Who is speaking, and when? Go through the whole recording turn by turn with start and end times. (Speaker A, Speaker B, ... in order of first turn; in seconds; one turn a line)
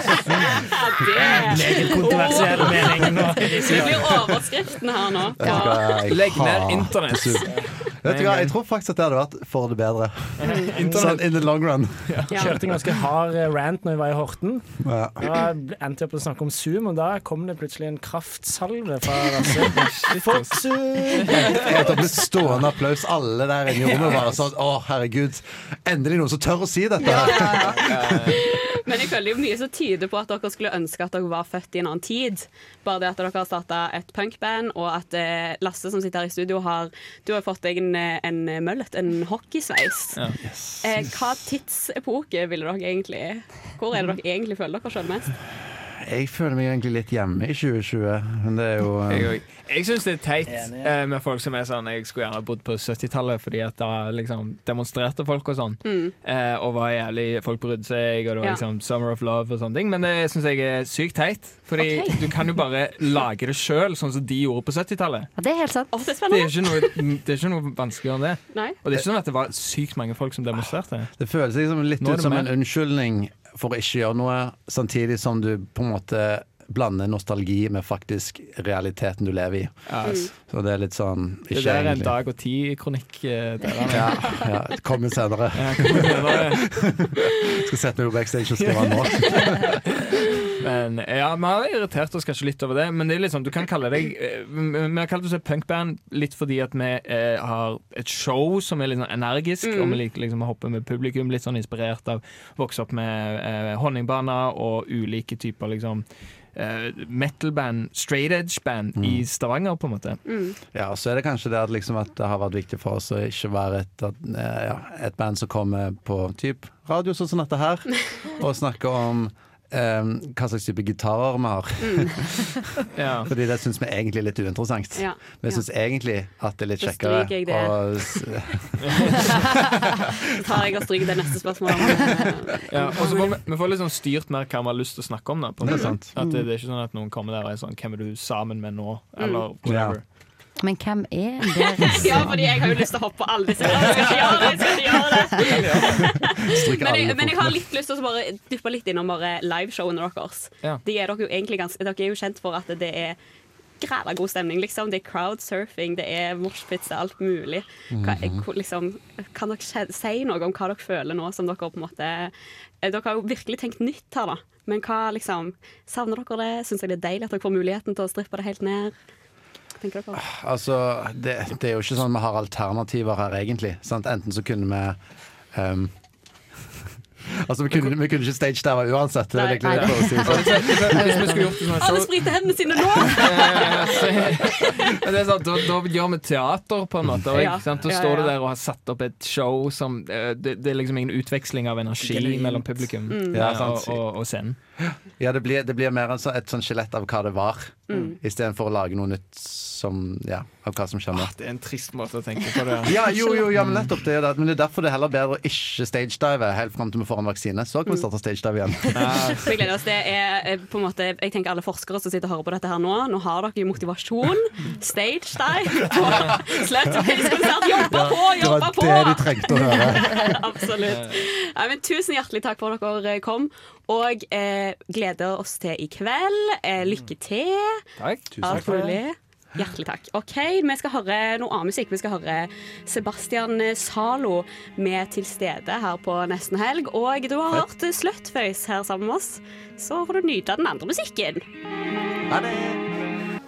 Speaker A: 0.1-0.6
Speaker B: 0.7-6.1
Speaker C: 1.3-4.4
Speaker A: 5.4-12.2
Speaker D: 6.1-8.5
Speaker D: 10.4-11.3
Speaker B: 10.5-10.7
Speaker C: 10.8-11.2
Speaker D: 12.1-12.9
Speaker B: 12.3-12.7
Speaker C: 12.3-22.3
Speaker A: 14.8-15.2
Speaker D: 19.6-20.8
Speaker A: 21.3-27.8
Speaker B: 27.0-45.3
Speaker D: 27.8-28.5
Speaker D: 40.1-40.4
Speaker A: 46.0-49.4
Speaker D: 49.1-65.3
Speaker C: 50.5-50.9
Speaker B: 55.8-56.1
Speaker B: 61.8-62.3
Speaker E: 65.4-65.9
Speaker B: 65.9-67.0
Speaker D: 66.3-71.1
Speaker B: 68.5-68.8
Speaker A: 71.2-82.2
Speaker D: 72.0-72.5
Speaker D: 79.9-80.3
Speaker B: 80.0-80.3
Speaker D: 81.5-84.4
Speaker A: 83.9-89.8
Speaker D: 85.6-86.6
Speaker D: 88.6-89.6
Speaker D: 90.6-110.2
Speaker B: 99.6-100.0
Speaker A: 109.0-109.2
Speaker B: 110.3-110.5
Speaker A: 110.7-122.6
Speaker B: 121.8-122.2
Speaker D: 123.0-123.3
Speaker A: 123.2-129.8
Speaker B: 125.0-125.7
Speaker B: 126.8-128.2
Speaker D: 128.9-129.2
Speaker B: 130.4-133.4
Speaker A: 131.3-132.3
Speaker D: 132.7-140.0
Speaker A: 135.6-136.1
Speaker B: 135.7-135.9
Speaker E: 136.2-136.5
Speaker B: 139.2-139.5
Speaker A: 139.6-140.0
Speaker E: 140.6-142.3
Speaker B: 141.8-153.2
Speaker D: 143.8-144.6
Speaker D: 145.4-146.0
Speaker A: 145.9-147.7
Speaker B: 153.8-168.9
Speaker A: 157.9-158.4
Speaker B: 169.8-170.2
Speaker A: 170.2-175.0
Speaker A: 175.5-175.9
Speaker A: 177.3-181.2
Speaker B: 179.3-180.6
Speaker D: 180.2-182.3
Speaker B: 181.7-184.8
Speaker D: 183.0-194.6
Speaker B: 187.3-188.4
Speaker A: 192.1-192.5
Speaker B: 193.1-193.5
Speaker A: 193.3-194.0
Speaker A: 195.2-201.3
Speaker B: 197.9-198.2
Speaker D: 201.1-203.0
Speaker A: 202.8-209.2
Speaker D: 208.9-209.6
Speaker B: 209.3-227.8
Speaker A: 217.8-220.4
Speaker D: 220.8-221.2
Speaker D: 228.0-228.7
Speaker A: 228.3-229.0
Speaker B: 228.4-241.4
Speaker A: 242.3-242.8